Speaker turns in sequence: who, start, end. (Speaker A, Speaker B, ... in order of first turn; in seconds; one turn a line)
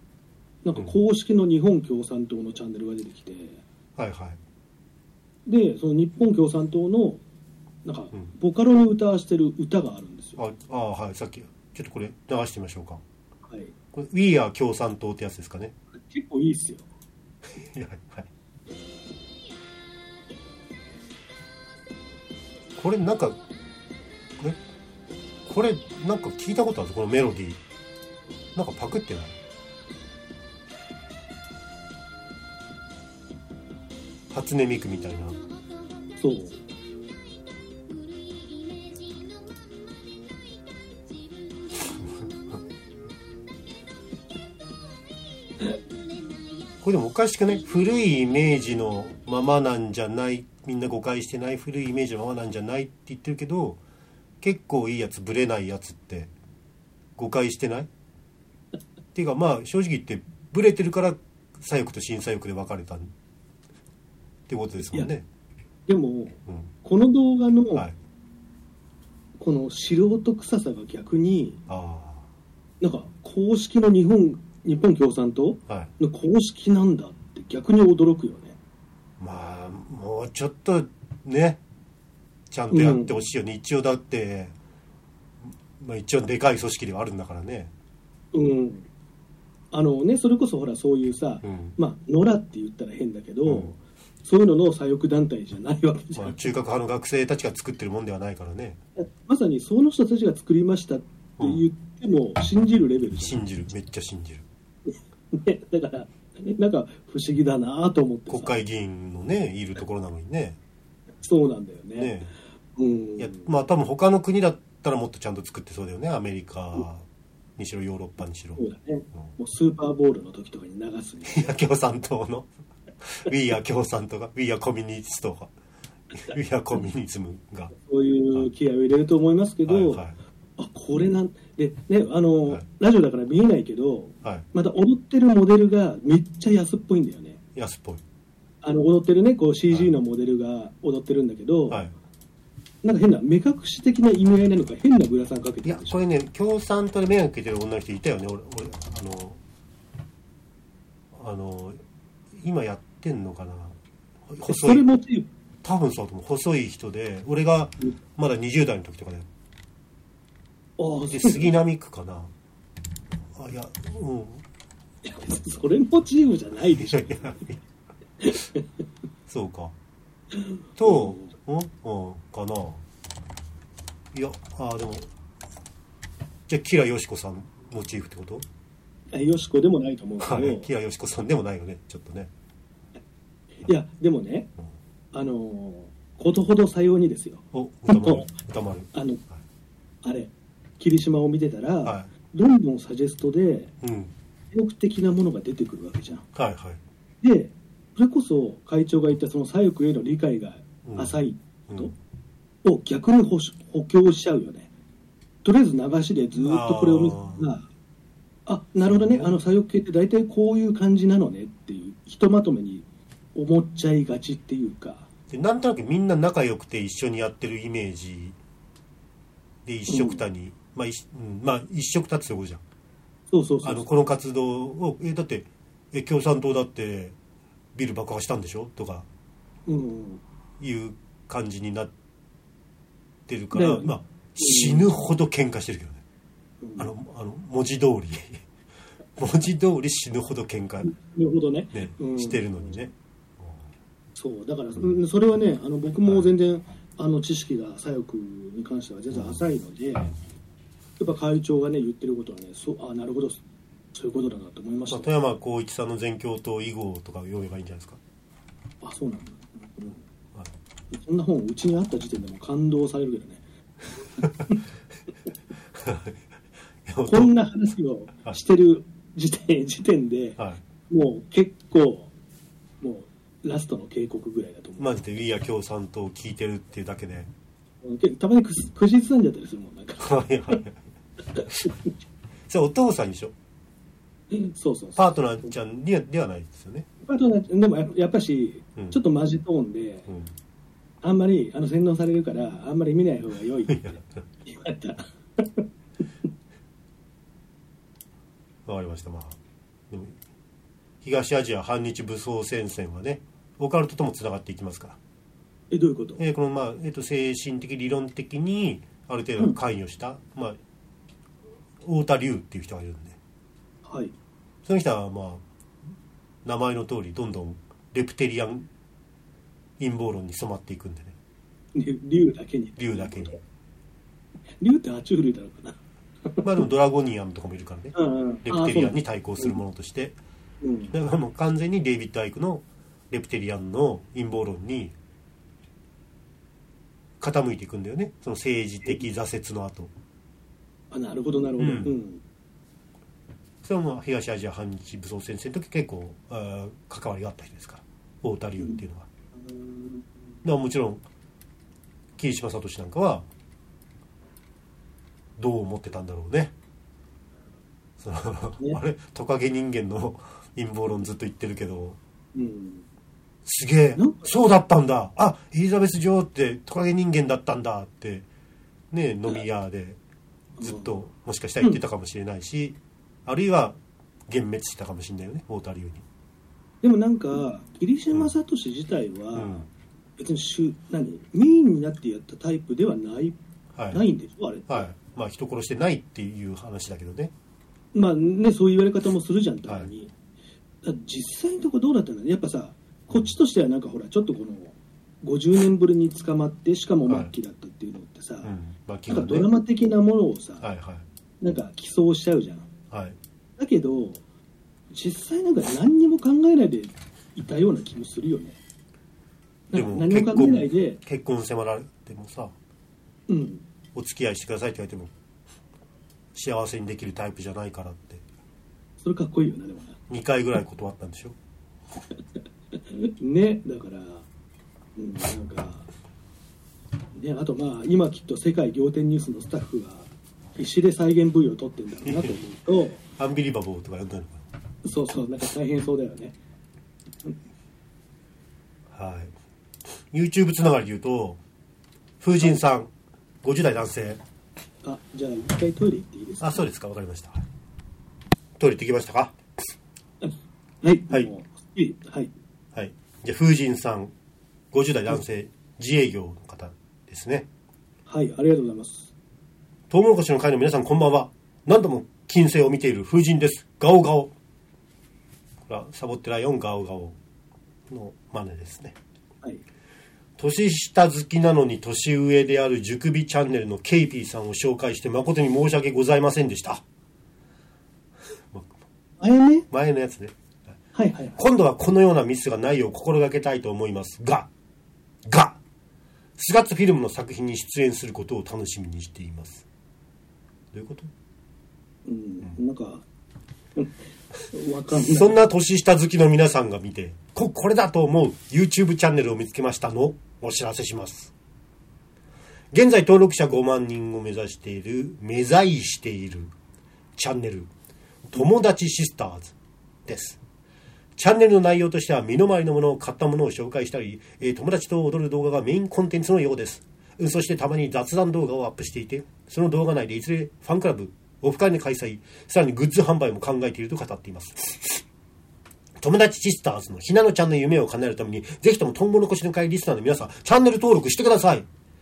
Speaker A: 0.6-3.6
Speaker B: 4.0-4.4
Speaker A: 5.5-7.2
Speaker A: 7.8-10.4
Speaker B: 10.4-13.0
Speaker A: 13.5-13.7
Speaker B: 13.9-15.7
Speaker A: 15.9-16.9
Speaker B: 17.5-18.3
Speaker B: 22.8-23.4
Speaker B: 25.5-27.6
Speaker B: 28.6-29.4
Speaker B: 34.3-35.4
Speaker A: 36.2-36.6
Speaker B: 46.8-53.8
Speaker B: 54.4-56.3
Speaker B: 57.2-57.9
Speaker B: 59.1-63.1
Speaker B: 64.5-65.3
Speaker A: 65.9-67.8
Speaker B: 66.5-66.7
Speaker A: 69.4-71.6
Speaker B: 71.7-72.3
Speaker A: 72.8-78.6
Speaker B: 79.2-81.6
Speaker B: 82.5-84.5
Speaker A: 82.7-83.2
Speaker B: 85.8-87.7
Speaker A: 88.3-88.9
Speaker A: 89.7-96.4
Speaker B: 91.4-91.8
Speaker B: 93.5-93.8
Speaker B: 96.2-98.8
Speaker A: 99.0-103.4
Speaker B: 101.4-101.6
Speaker B: 103.1-104.4
Speaker A: 105.3-108.6
Speaker B: 108.3-110.6
Speaker A: 111.2-112.1
Speaker B: 112.0-112.3
Speaker A: 112.8-113.5
Speaker B: 113.2-117.1
Speaker B: 117.6-119.3
Speaker A: 118.6-121.4
Speaker B: 121.3-122.5
Speaker B: 123.0-125.5
Speaker B: 126.1-127.7
Speaker A: 127.7-130.0
Speaker B: 129.7-130.2
Speaker A: 130.6-137.4
Speaker B: 137.6-138.0
Speaker A: 138.6-141.8
Speaker A: 142.8-146.0
Speaker B: 145.6-149.4
Speaker B: 151.1-151.8
Speaker B: 152.4-153.8
Speaker B: 154.3-154.8
Speaker A: 154.4-155.3
Speaker B: 155.6-159.3
Speaker A: 160.8-161.5
Speaker B: 161.1-162.3
Speaker B: 163.3-164.4
Speaker A: 165.0-167.4
Speaker B: 166.9-167.6
Speaker A: 168.2-168.7
Speaker B: 169.3-169.7
Speaker A: 170.3-171.3
Speaker B: 170.8-172.8
Speaker B: 174.1-175.1
Speaker B: 176.5-178.4
Speaker A: 179.1-180.7
Speaker B: 180.2-182.3
Speaker A: 183.6-184.5
Speaker A: 185.1-188.3
Speaker B: 187.5-189.4
Speaker A: 188.9-189.2
Speaker A: 190.0-193.7
Speaker B: 191.8-192.1
Speaker B: 193.8-194.1
Speaker A: 194.5-196.2
Speaker B: 196.3-196.8
Speaker A: 197.2-201.9
Speaker B: 200.8-201.9
Speaker A: 202.6-204.7
Speaker A: 205.4-207.7
Speaker B: 206.4-207.5
Speaker A: 208.5-215.1
Speaker B: 208.9-209.3
Speaker B: 215.3-218.4
Speaker B: 219.7-222.6
Speaker A: 219.9-220.2
Speaker A: 223.3-223.9
Speaker B: 223.6-227.2
Speaker B: 227.8-229.1
Speaker A: 229.7-230.2
Speaker B: 230.6-231.9
Speaker B: 233.3-236.0
Speaker A: 233.5-234.9
Speaker A: 236.6-236.9
Speaker B: 236.8-238.4
Speaker B: 239.2-240.9
Speaker A: 240.8-242.8
Speaker B: 241.7-243.7
Speaker A: 244.2-250.1
Speaker B: 249.1-249.4
Speaker A: 251.0-253.4
Speaker A: 253.9-255.1
Speaker B: 254.9-258.0
Speaker A: 258.8-260.0
Speaker A: 260.9-263.4
Speaker B: 264.2-264.5
Speaker B: 265.8-266.2
Speaker B: 266.9-267.3
Speaker A: 267.1-272.1
Speaker B: 270.4-270.6
Speaker A: 272.8-274.9
Speaker B: 274.8-277.3
Speaker A: 277.8-280.6
Speaker B: 280.0-280.8
Speaker A: 281.4-281.9
Speaker B: 282.5-283.3
Speaker A: 284.3-285.0
Speaker B: 285.0-286.9
Speaker A: 287.0-290.1
Speaker B: 290.1-290.3
Speaker A: 291.0-295.7
Speaker B: 293.7-294.2
Speaker B: 298.7-299.4
Speaker B: 299.9-300.2
Speaker B: 301.0-305.0
Speaker A: 305.7-306.2
Speaker B: 306.2-310.6
Speaker B: 311.8-313.2
Speaker A: 313.8-314.1
Speaker B: 314.6-315.4
Speaker B: 316.4-318.7
Speaker B: 319.8-321.1
Speaker A: 321.7-323.4
Speaker B: 322.8-323.4
Speaker A: 324.6-326.4
Speaker B: 326.4-330.2
Speaker A: 327.9-329.6
Speaker A: 330.6-330.9
Speaker B: 330.9-334.9
Speaker B: 337.2-339.9
Speaker A: 340.9-342.2
Speaker B: 341.6-342.0
Speaker B: 343.6-349.1
Speaker A: 349.4-350.1
Speaker B: 350.4-351.0
Speaker B: 352.2-353.3
Speaker B: 355.4-356.5
Speaker B: 358.0-362.0
Speaker A: 362.3-362.9
Speaker B: 363.4-368.3
Speaker A: 364.0-364.3
Speaker B: 368.9-370.0
Speaker A: 370.6-370.9
Speaker B: 370.6-373.8
Speaker B: 374.3-376.0
Speaker A: 376.8-379.6
Speaker B: 379.3-379.7
Speaker A: 380.2-383.4
Speaker B: 383.8-384.0
Speaker A: 383.9-384.9
Speaker B: 384.7-387.3
Speaker A: 387.9-390.1
Speaker A: 390.8-398.5
Speaker B: 393.1-393.4
Speaker B: 398.4-399.5
Speaker A: 399.1-400.6
Speaker B: 400.6-401.1
Speaker A: 401.4-402.7
Speaker B: 402.9-403.2
Speaker A: 403.6-404.2
Speaker A: 404.9-408.6
Speaker A: 409.7-411.0
Speaker B: 409.7-412.5
Speaker A: 413.3-413.6
Speaker B: 413.9-415.1
Speaker B: 416.3-418.2
Speaker A: 419.0-420.0
Speaker B: 420.1-421.4
Speaker A: 422.7-424.2
Speaker A: 425.0-425.9
Speaker A: 427.1-433.0
Speaker B: 432.0-432.4
Speaker B: 433.2-434.5
Speaker A: 434.8-436.4
Speaker B: 438.9-439.3
Speaker B: 440.1-441.4
Speaker B: 442.2-442.9
Speaker B: 443.4-444.2
Speaker A: 444.8-446.6
Speaker B: 446.4-447.4
Speaker B: 448.6-449.4
Speaker A: 450.2-452.3
Speaker B: 452.7-454.1
Speaker B: 454.7-457.5
Speaker A: 458.1-459.1
Speaker B: 459.9-464.3
Speaker B: 465.7-467.2
Speaker B: 467.9-469.0
Speaker B: 470.4-476.8
Speaker A: 479.2-479.7
Speaker B: 479.7-480.8
Speaker A: 480.9-481.4
Speaker B: 481.4-484.5
Speaker B: 485.3-485.6
Speaker B: 486.4-489.6
Speaker B: 490.7-491.1
Speaker A: 492.1-493.1
Speaker A: 494.5-495.4
Speaker B: 494.9-501.3
Speaker B: 502.7-506.5
Speaker B: 507.2-507.7
Speaker B: 508.3-509.5
Speaker B: 510.1-510.4
Speaker B: 511.2-525.0
Speaker B: 526.0-531.7